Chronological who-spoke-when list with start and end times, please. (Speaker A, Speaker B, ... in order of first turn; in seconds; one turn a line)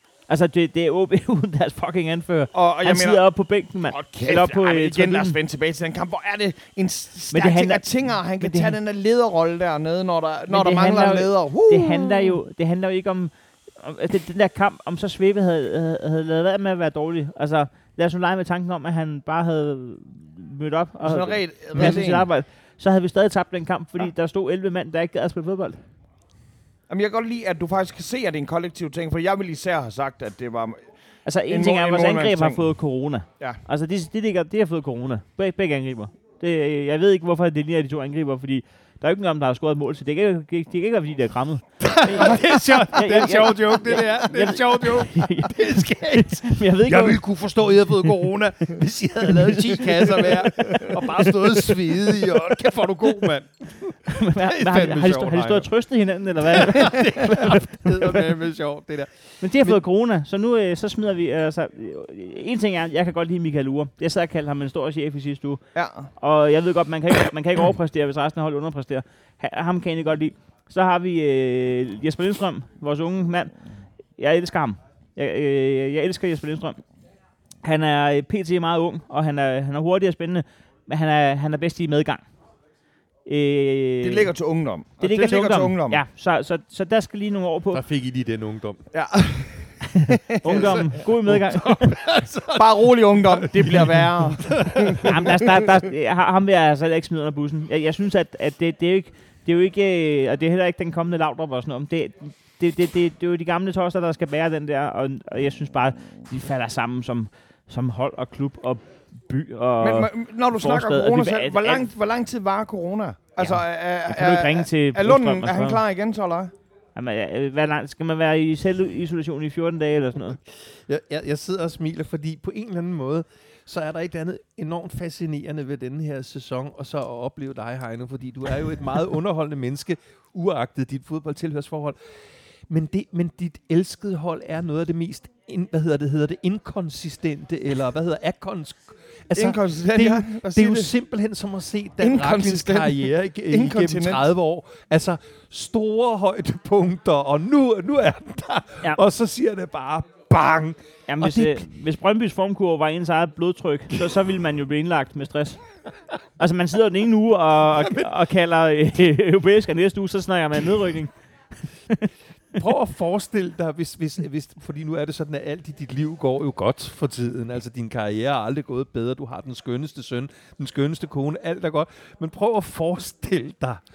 Speaker A: 0.3-5.4
Speaker B: 2.5-3.2
Speaker B: 3.9-12.4
Speaker A: 7.3-7.8
Speaker A: 8.4-8.8
Speaker A: 10.5-25.8
Speaker B: 21.0-22.3
Speaker B: 26.9-30.8
Speaker A: 31.2-47.2
Speaker B: 31.5-32.6
Speaker C: 41.8-55.7
Speaker A: 49.3-51.3
Speaker A: 54.1-58.3
Speaker C: 56.4-59.8
Speaker A: 59.4-65.6
Speaker B: 65.7-66.1
Speaker A: 66.2-73.5
Speaker A: 74.2-76.8
Speaker A: 77.6-82.2
Speaker A: 83.2-84.3
Speaker B: 84.0-86.0
Speaker A: 85.0-87.8
Speaker C: 87.7-88.8
Speaker B: 88.9-90.8
Speaker A: 89.9-92.0
Speaker C: 90.5-95.3
Speaker B: 92.5-95.4
Speaker A: 95.0-111.9
Speaker B: 109.8-116.5
Speaker A: 113.4-115.8
Speaker A: 116.9-120.4
Speaker C: 120.5-131.9
Speaker C: 132.7-151.7
Speaker B: 139.3-140.9
Speaker B: 142.0-144.2
Speaker A: 151.1-155.6
Speaker A: 156.4-161.1
Speaker C: 157.8-158.1
Speaker C: 162.5-173.8